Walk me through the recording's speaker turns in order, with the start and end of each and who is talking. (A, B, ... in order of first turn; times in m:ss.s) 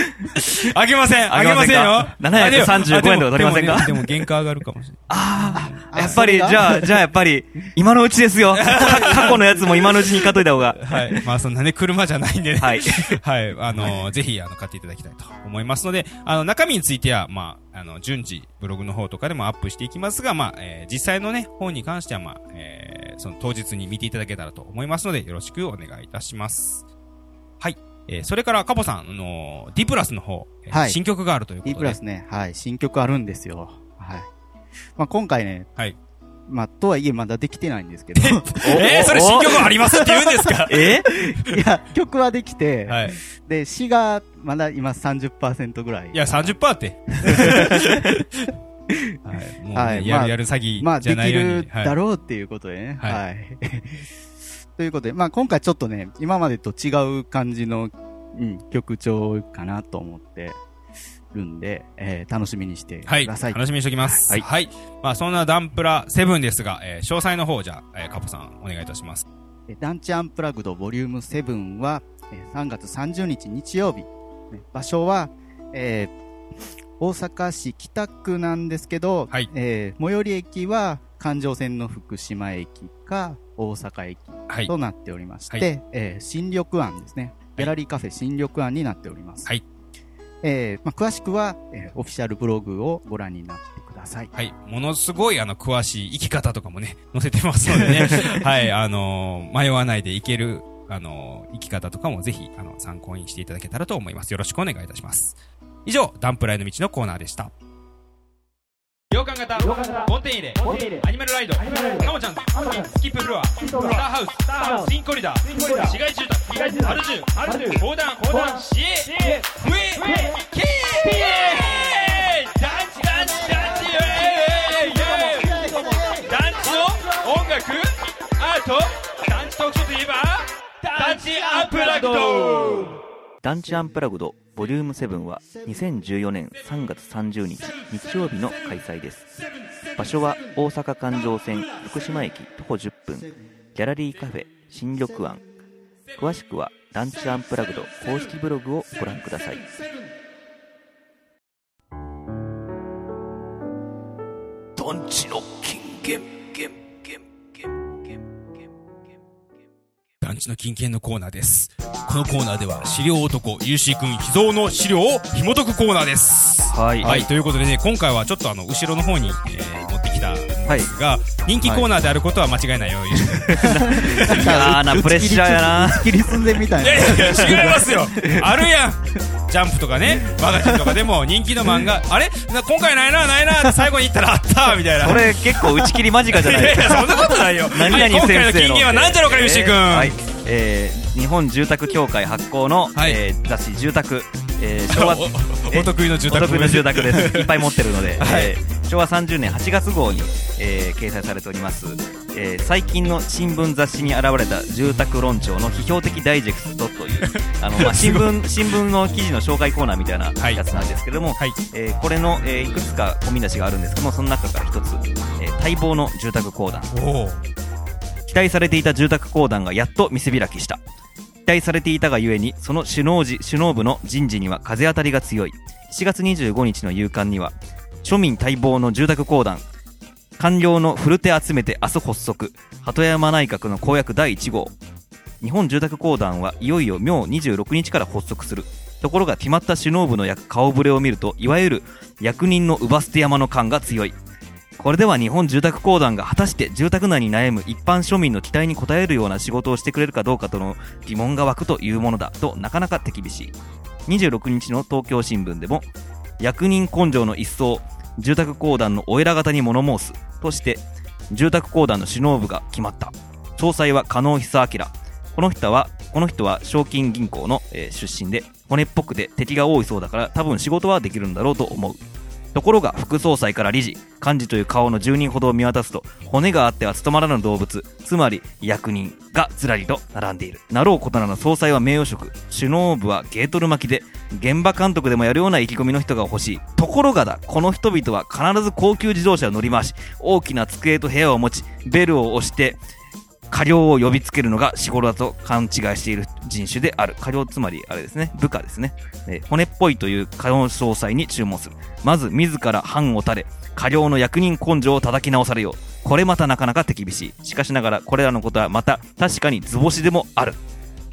0:00.4-0:06.2 A
0:01.3-0:04.1 B
0:05.1-0:11.2 B
0:05.5-0:06.9 C
0:08.5-0:09.4 A
0:10.8-0:26.8 A
0:12.6-0:13.2 B
0:27.6-0:32.0 A
0:30.7-0:31.0 C
0:31.6-0:34.3 C
0:35.0-0:35.7 C
0:36.5-0:38.9 C
0:38.2-0:41.6 A
0:38.6-0:39.6 B
0:39.6-0:40.5 C
0:40.7-0:41.1 B
0:41.0-0:46.5 C
0:42.9-0:43.2 A
0:46.1-0:48.5 A
0:47.3-0:48.0 C
0:49.2-0:51.9 A
0:49.7-0:54.1 C
0:54.8-1:00.6 C
1:01.3-1:04.2 C
1:03.1-1:09.3 A
1:09.7-1:16.1 C
1:17.0-1:29.5 C
1:30.4-1:34.3 C
1:34.4-1:47.5 A
1:49.1-2:13.0 A
2:13.4-2:19.3 B
2:20.0-2:25.4 B
2:26.2-2:29.7 B
2:34.8-2:37.2 B
2:40.2-2:54.6 A
2:46.7-2:47.2 B
2:47.0-2:47.3 C
2:53.5-2:56.3 B
2:53.6-2:58.5 C
2:56.8-3:05.7 A
3:05.0-3:36.9 B
3:06.3-3:10.2 A
3:14.9-3:17.7 A
3:18.2-3:18.5 A
3:27.2-3:28.5 A
3:30.4-3:30.7 A
3:36.9-3:37.4 A
3:38.3-3:40.8 B
3:41.5-3:49.6 B
3:50.4-3:54.8 B
3:55.4-4:04.2 B
4:04.8-4:13.5 B
4:14.1-4:32.0 B
4:32.5-4:52.8 B
4:53.5-5:10.6 B